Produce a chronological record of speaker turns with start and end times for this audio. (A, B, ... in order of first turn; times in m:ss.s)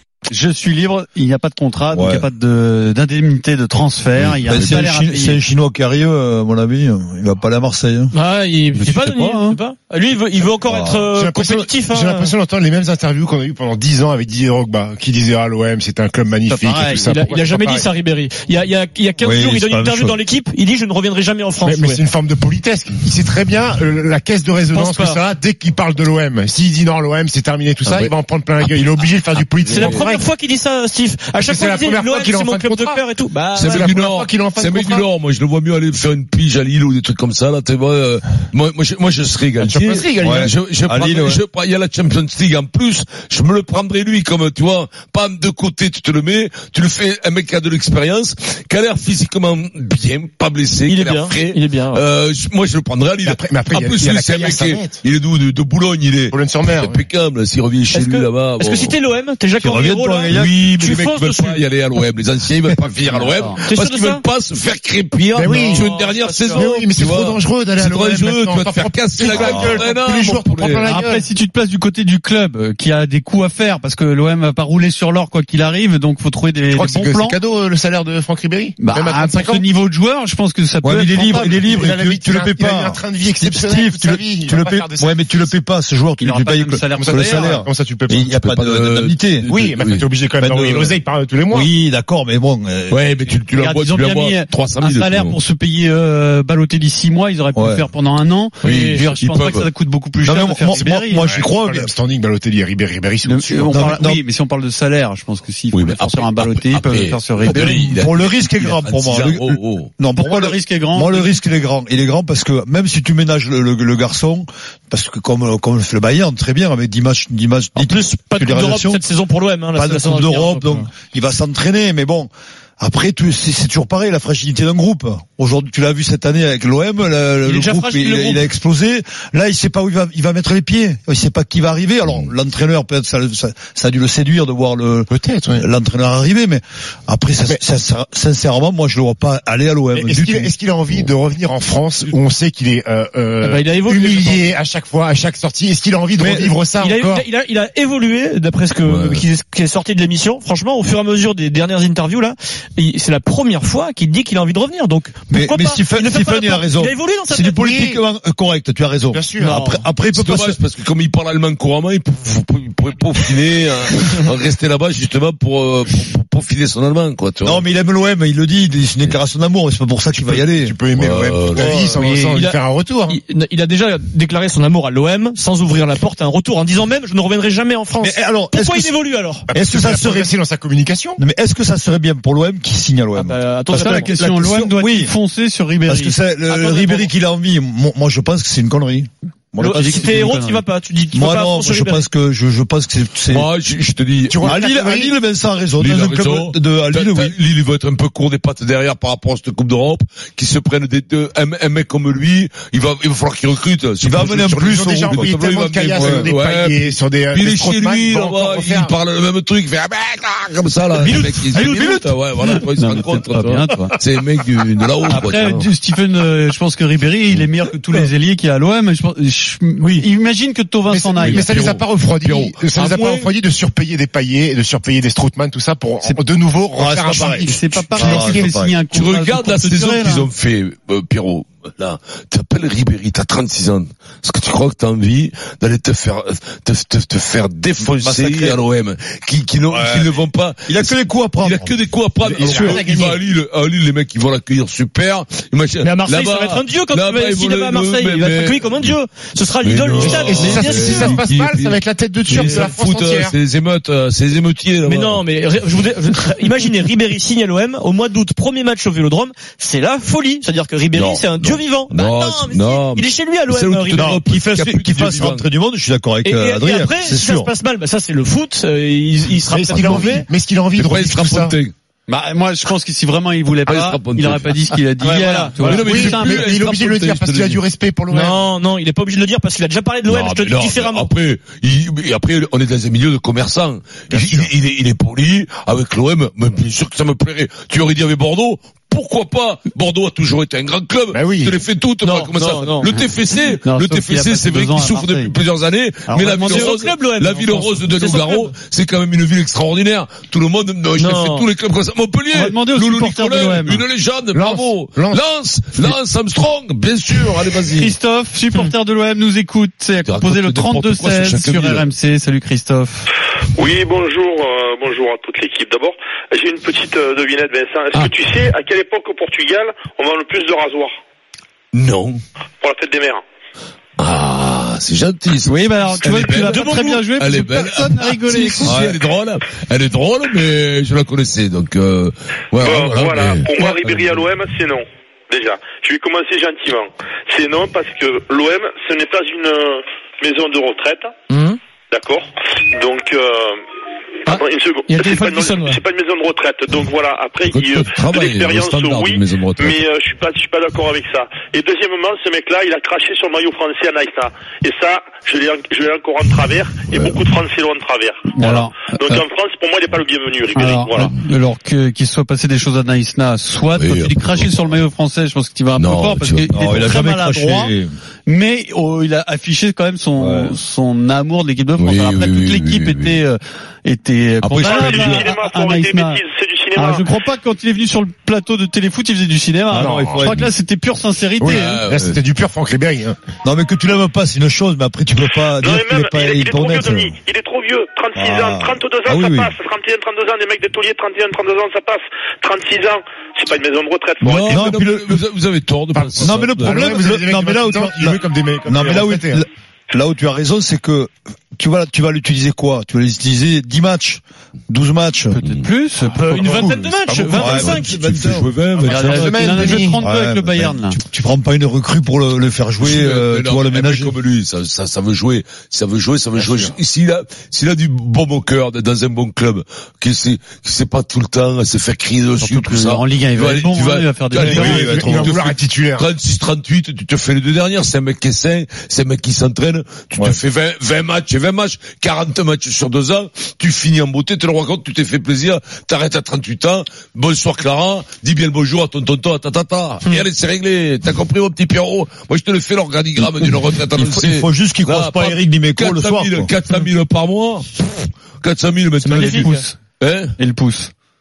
0:00.3-0:05.4 A
0:01.9-0:02.3 B
0:04.4-0:08.1 B
0:08.1-0:12.4 C
0:08.8-0:09.6 A
0:10.7-0:11.0 B
0:11.1-0:17.9 D
0:16.5-0:17.1 A
0:17.0-0:22.0 C
0:19.2-0:20.2 B
0:21.6-0:30.3 D
0:24.7-0:25.2 C
0:27.8-0:28.1 E
0:29.4-0:30.1 E
0:29.7-0:33.9 C
0:31.4-0:35.1 D
0:33.5-0:59.0 E
0:39.6-0:40.6 D
0:40.2-0:41.4 B
0:50.9-0:52.0 C
0:53.2-0:55.0 D
0:56.3-0:57.1 D
0:57.9-1:01.6 C
0:59.6-1:00.6 B
1:00.3-1:10.9 E
1:03.1-1:03.6 A
1:03.6-1:04.2 C
1:05.3-1:05.9 D
1:05.6-1:06.8 C
1:06.5-1:11.3 D
1:10.8-1:17.4 A
1:16.7-1:19.6 D
1:18.8-1:21.7 A
1:20.8-1:29.5 B
1:21.6-1:25.5 D
1:26.2-1:27.5 A
1:26.9-1:28.3 D
1:28.4-1:30.1 E
1:29.5-1:31.7 D
1:30.4-1:33.1 B
1:32.9-1:35.4 E
1:33.6-1:41.3 A
1:37.5-1:37.9 B
1:38.6-1:39.0 C
1:38.6-1:39.7 E
1:40.2-1:41.9 B
1:40.7-1:44.0 D
1:43.2-1:47.9 A
1:43.7-1:44.2 B
1:45.7-1:49.9 E
1:47.5-1:59.0 B
1:50.2-1:51.4 A
1:57.8-2:00.9 C
1:59.8-2:20.5 B
2:07.4-2:08.5 C
2:15.1-2:15.7 D
2:19.9-2:27.3 D
2:23.4-2:24.6 C
2:26.2-2:26.5 B
2:26.8-2:37.6 C
2:28.9-2:29.3 E
2:35.3-2:40.6 B
2:37.6-2:38.0 D
2:39.1-2:39.7 D
2:39.4-2:39.8 C
2:40.1-2:47.6 E
2:47.4-2:50.8 B
2:50.2-2:53.2 D
2:50.9-2:52.2 E
2:52.0-2:59.5 C
2:58.0-2:59.0 B
2:59.5-3:01.2 D
2:59.5-3:00.4 B
3:01.2-3:05.1 B
3:03.2-3:04.1 C
3:03.8-3:06.1 A
3:05.9-3:10.2 B
3:06.5-3:07.1 C
3:09.6-3:12.1 C
3:09.6-3:10.6 A
3:11.1-3:13.5 B
3:13.3-3:14.5 E
3:14.3-3:15.1 D
3:14.4-3:17.4 B
3:15.8-3:35.7 E
3:24.0-3:25.4 B
3:24.2-3:28.9 D
3:25.9-3:26.3 B
3:31.1-3:34.0 A
3:31.5-3:32.0 C
3:35.1-3:41.5 A
3:39.8-3:40.1 C
3:40.9-3:48.5 D
3:41.2-3:43.3 E
3:46.7-3:48.8 B
3:47.4-3:50.3 A
3:48.9-4:09.0 E
3:57.8-3:58.6 B
3:59.7-4:01.8 B
4:02.2-4:03.2 D
4:02.4-4:02.8 B
4:05.8-4:11.2 C
4:09.6-4:15.2 E
4:10.0-4:13.4 D
4:12.4-4:12.8 C
4:14.8-4:24.1 C
4:20.9-4:25.5 E
4:24.0-4:27.5 B
4:26.2-4:30.3 C
4:29.4-4:31.6 D
4:29.7-4:30.1 E
4:30.8-4:31.7 E
4:32.1-4:36.5 A
4:33.7-4:34.5 E
4:35.0-4:35.8 C
4:35.6-4:37.6 E
4:35.6-4:38.4 D
4:38.1-4:41.1 C
4:40.1-5:08.0 E
4:44.1-4:44.5 D
4:51.1-4:51.6 D
4:52.0-4:53.0 C
4:53.6-4:55.4 A
4:56.1-4:56.7 A
4:56.4-4:58.5 C
5:01.0-5:01.5 C
5:02.3-5:03.8 A
5:04.3-5:06.0 D
5:07.8-5:13.1 A
5:10.0-5:11.9 E
5:13.6-5:20.9 F
5:21.7-5:22.2 E
5:22.6-5:23.2 F
5:24.0-5:34.3 E
5:25.4-5:28.8 A
5:28.6-5:29.0 B
5:32.6-5:41.1 F
5:41.3-5:41.6 C
5:41.9-5:43.6 F
5:44.3-6:01.1 F
5:44.3-5:45.8 C
5:47.4-5:49.9 E
5:56.9-5:57.3 E
5:58.4-5:59.2 A
6:00.5-6:07.7 A
6:03.8-6:04.7 E
6:05.8-6:06.9 E
6:06.5-6:07.9 B
6:08.3-6:16.2 A
6:10.2-6:10.6 B
6:11.8-6:13.2 E
6:14.4-6:14.8 E
6:14.6-6:17.0 F
6:14.8-6:15.3 B
6:16.7-6:21.8 A
6:19.7-6:20.4 D
6:19.7-6:20.5 B
6:21.4-6:23.2 D
6:21.5-6:22.2 E
6:23.4-6:27.2 B
6:25.6-6:34.6 F
6:28.2-6:29.5 B
6:34.2-6:36.8 E
6:34.5-6:35.2 B
6:36.0-6:39.4 D
6:36.2-6:45.4 B
6:45.4-6:45.7 E
6:45.4-6:46.9 A
6:46.1-6:48.0 C
6:46.3-6:46.9 D
6:47.1-6:49.9 E
6:47.3-6:48.5 B
6:48.7-6:50.0 D
6:48.9-6:51.0 A
6:50.0-6:54.2 B
6:52.8-7:29.5 E
6:56.4-6:56.8 D
7:02.4-7:05.0 A
7:04.4-7:06.1 D
7:04.6-7:05.3 B
7:10.1-7:10.4 B
7:23.2-7:26.5 B
7:29.0-7:29.7 C
7:29.1-7:29.7 A
7:30.0-7:30.3 E
7:30.4-7:30.9 A